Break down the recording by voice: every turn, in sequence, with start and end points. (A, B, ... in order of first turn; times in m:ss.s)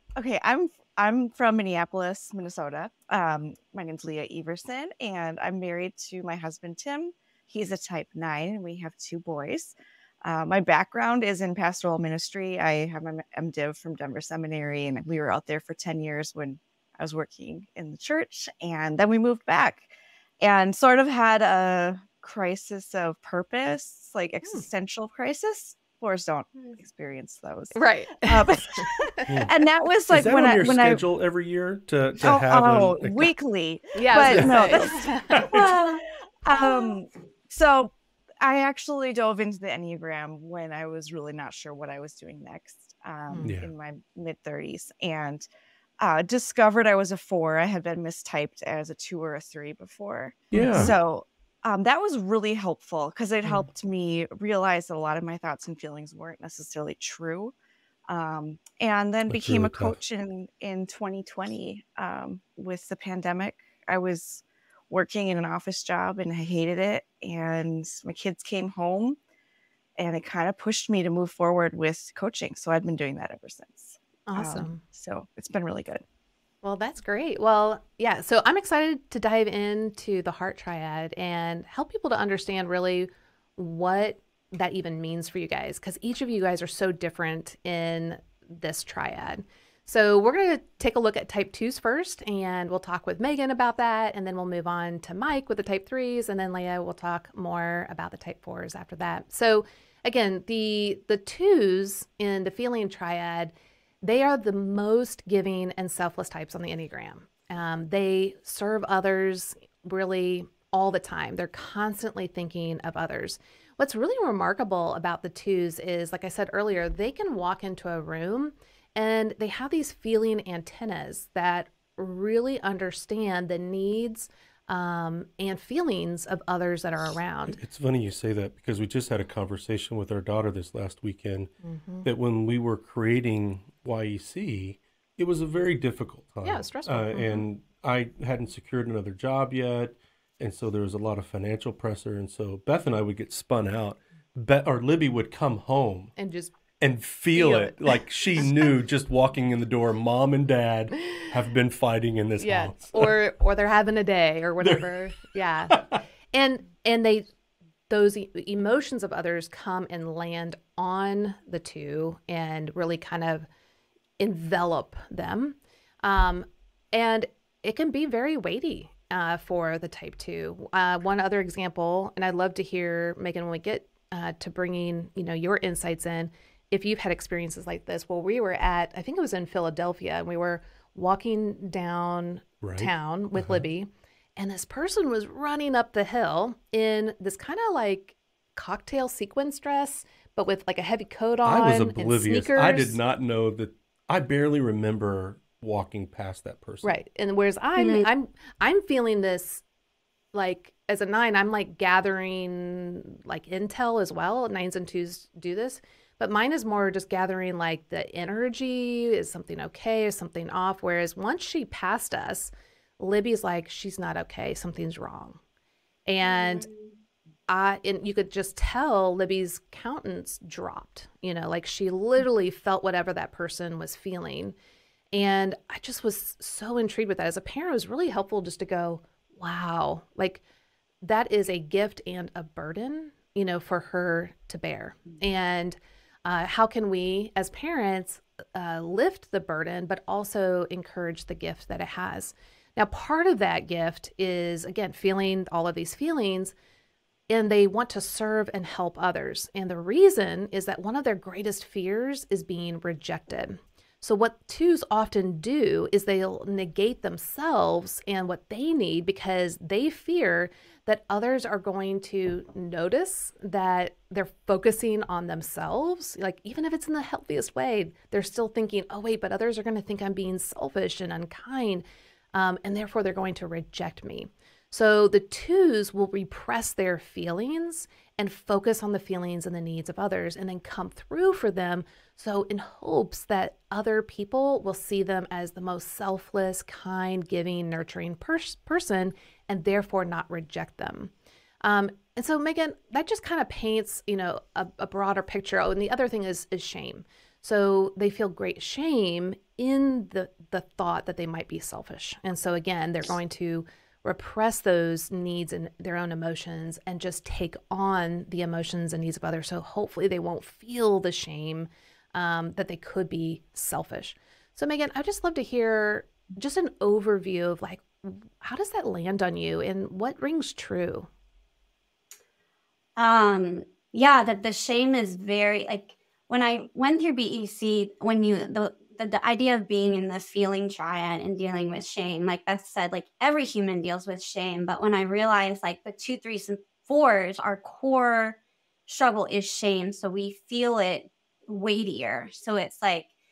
0:00.1-0:31.0 A
0:27.7-0:29.5 B
0:30.1-0:33.3 C
0:32.2-0:45.4 A
0:33.9-0:35.4 B
0:34.2-0:35.7 C
0:35.5-0:37.0 D
0:43.3-0:43.5 B
0:43.4-0:43.7 C
0:46.0-0:57.5 A
0:50.5-0:50.9 C
0:50.5-0:51.0 B
0:58.1-1:09.2 A
0:59.3-1:00.0 C
1:10.0-1:16.0 A
1:14.3-1:14.8 B
1:16.6-1:43.5 B
1:44.0-2:07.6 B
2:07.5-2:11.5 C
2:11.6-2:12.1 B
2:12.0-2:26.1 C
2:16.4-2:17.4 B
2:26.2-2:26.5 B
2:26.8-2:33.1 C
2:27.3-2:28.6 B
2:32.4-2:37.2 B
2:34.6-2:34.9 C
2:35.7-2:36.0 C
2:37.9-2:43.5 B
2:44.2-3:13.0 B
3:02.6-3:03.6 C
3:11.4-3:16.9 C
3:16.8-3:19.6 B
3:17.8-3:18.1 D
3:20.3-3:35.4 B
3:36.1-3:36.7 B
3:36.2-3:36.9 D
3:37.5-3:44.5 B
3:45.1-3:50.4 B
3:51.0-4:06.5 B
4:07.3-4:51.1 B
4:51.6-5:21.1 B
5:23.0-5:43.1 D